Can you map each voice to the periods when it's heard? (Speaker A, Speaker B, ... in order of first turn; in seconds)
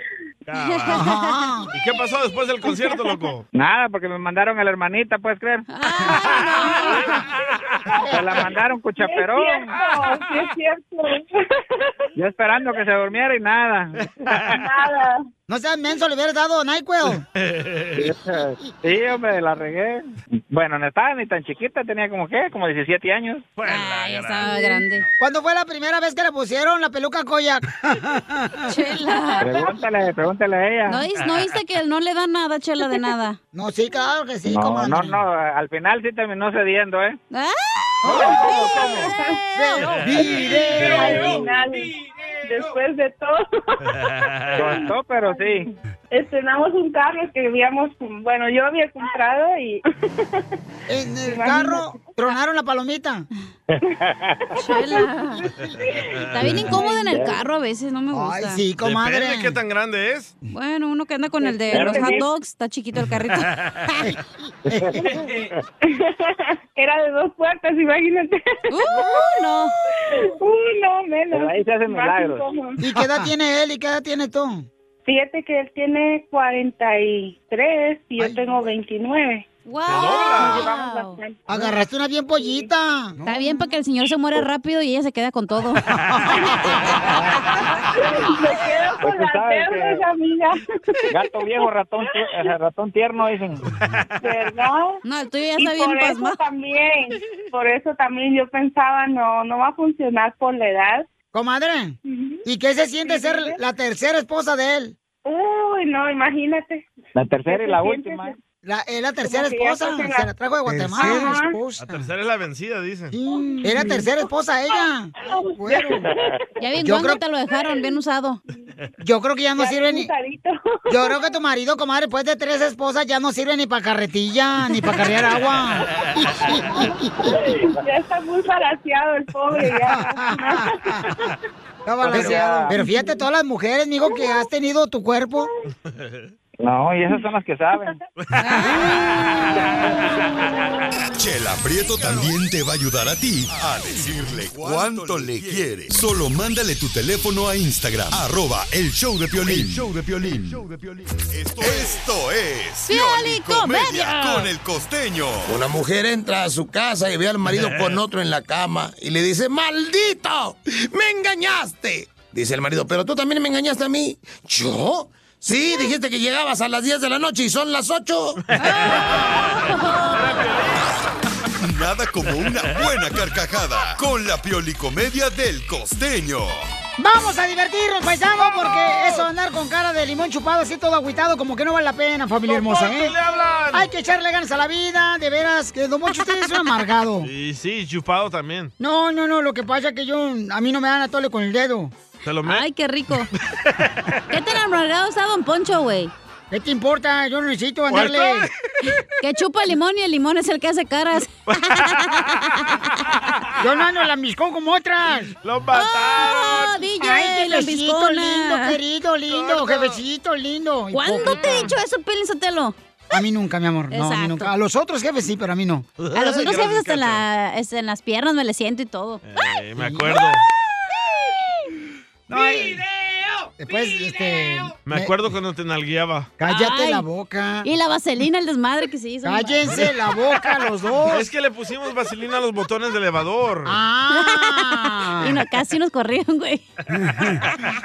Speaker A: 0.5-1.1, 1.7-3.5, 9.8-10.1, 17.4-18.1, 23.6-24.6, 40.1-41.5, 43.9-44.6, 58.8-60.4, 63.5-63.9, 79.9-80.7, 93.8-94.1, 111.8-113.1, 126.1-126.6, 136.0-136.3, 138.2-139.9, 157.5-157.9, 168.5-171.0, 182.5-183.9, 187.2-188.7, 192.2-192.6, 193.3-194.2, 197.9-198.5, 201.5-202.3, 205.4-206.8, 209.3-210.0, 211.3-211.7, 216.0-217.2, 219.2-220.4, 224.8-226.3, 231.1-233.8
Speaker B: 0.6-1.4, 5.7-7.1, 23.6-25.1, 28.7-29.6, 30.9-33.4, 37.3-40.0, 54.6-55.4, 56.3-58.6, 60.5-63.5, 68.7-69.7, 79.7-81.2, 83.2-86.0, 95.1-96.4, 116.6-118.4, 138.4-138.9, 152.9-154.5, 168.6-170.4, 192.4-193.3, 194.3-196.1, 199.0-202.9, 205.7-208.8, 210.9-212.8, 213.9-214.5, 216.1-219.6, 226.4-227.1, 227.6-229.9, 234.1-236.6
Speaker C: 0.9-1.7, 15.5-17.2, 25.2-28.7, 33.5-35.2, 38.0-38.6, 39.5-41.5, 50.9-53.3, 58.1-59.6, 72.8-74.7, 78.2-78.7, 81.5-83.4, 101.3-105.0, 108.6-112.1, 113.1-116.1, 116.8-117.2, 119.0-120.1, 120.9-127.3, 129.9-131.1, 131.9-135.5, 177.0-183.1, 183.7-187.3, 188.8-191.9, 196.5-198.5, 203.6-205.3, 207.0-211.7, 213.1-215.9, 219.8-220.2, 222.3-222.8, 223.6-225.1, 226.4-227.7, 229.2-231.2, 233.7-235.4, 237.0-237.4
Speaker D: 3.5-5.6, 8.1-9.7, 12.2-14.6, 18.0-23.5, 29.4-31.0, 34.5-37.2, 38.6-38.9, 44.5-45.7, 57.1-57.4, 61.7-62.2, 64.7-65.0, 71.3-72.5, 87.1-87.4, 89.0-90.0, 91.1-93.7, 107.1-108.4, 132.0-132.8, 136.6-138.0
Speaker E: 9.0-11.4, 14.5-15.2, 38.1-39.4, 40.1-41.9, 42.4-44.0, 44.5-50.4, 51.2-52.1, 54.5-55.1, 55.7-57.3, 61.4-62.3, 65.9-69.3, 70.1-72.8, 75.0-79.5, 80.4-81.7, 82.4-82.7, 87.8-91.2, 92.1-92.5, 94.2-95.0, 95.6-101.1, 102.1-102.4, 103.0-103.6, 105.2-106.9, 107.5-108.4, 109.2-110.3, 110.9-111.6, 113.2-114.1, 115.2-116.2, 117.5-117.9, 119.6-121.2, 126.5-131.3, 132.1-133.1
Speaker F: 141.2-155.6, 171.6-176.7
Speaker G: 155.5-168.4